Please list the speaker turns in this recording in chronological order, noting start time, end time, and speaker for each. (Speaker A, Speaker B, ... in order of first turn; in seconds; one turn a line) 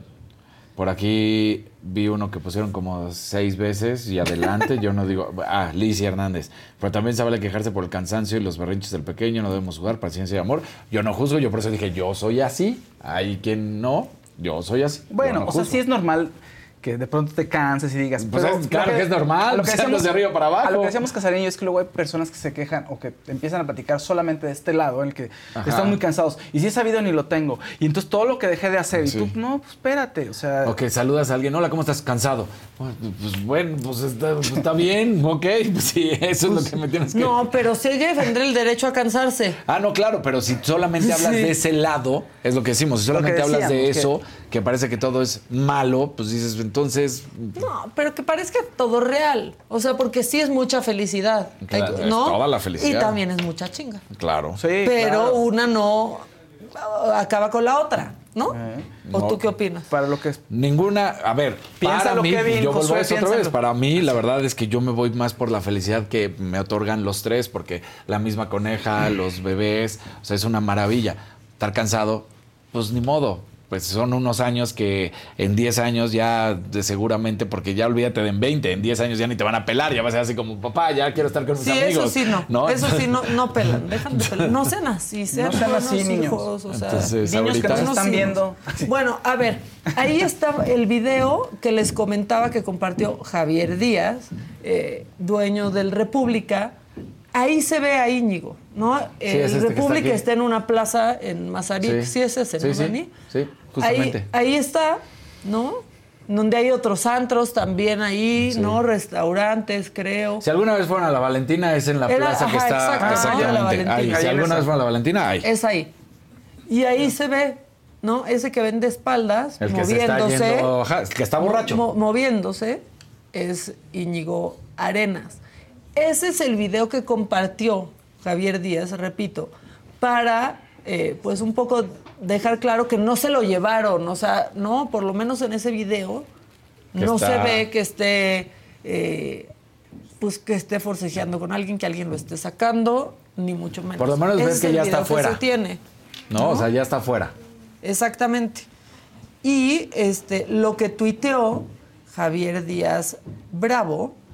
Speaker A: 0.8-15.7
Speaker B: 15.1-30.8
Speaker A: 18.2-20.9
Speaker A: 25.6-26.0
Speaker A: 29.0-29.3
Speaker A: 30.6-37.5
Speaker C: 37.1-39.6
Speaker A: 39.6-47.5
Speaker C: 41.0-41.5
Speaker B: 43.1-44.1
Speaker C: 47.5-54.0
Speaker A: 51.6-53.2
Speaker A: 54.1-54.6
Speaker B: 54.5-55.4
Speaker C: 54.8-58.6
Speaker B: 58.5-59.0
Speaker A: 59.0-59.5
Speaker C: 59.1-59.9
Speaker B: 59.9-60.4
Speaker A: 60.5-84.6
Speaker B: 61.8-63.6
Speaker C: 81.6-96.7
Speaker B: 85.3-86.5
Speaker A: 86.7-88.0
Speaker B: 87.5-88.9
Speaker C: 97.3-103.1
Speaker A: 99.3-100.2
Speaker A: 101.8-104.2
Speaker C: 103.8-110.4
Speaker A: 108.4-108.8
Speaker A: 110.4-115.5
Speaker C: 112.1-114.2
Speaker B: 113.0-114.7
Speaker C: 115.4-115.9
Speaker C: 116.7-120.7
Speaker A: 119.6-121.8
Speaker C: 121.4-125.4
Speaker C: 126.0-136.3
Speaker C: 136.9-139.5
Speaker A: 136.9-137.6
Speaker C: 140.2-145.8
Speaker A: 144.0-145.4
Speaker A: 146.3-147.3
Speaker C: 146.3-146.7
Speaker C: 147.8-148.7
Speaker C: 149.4-154.2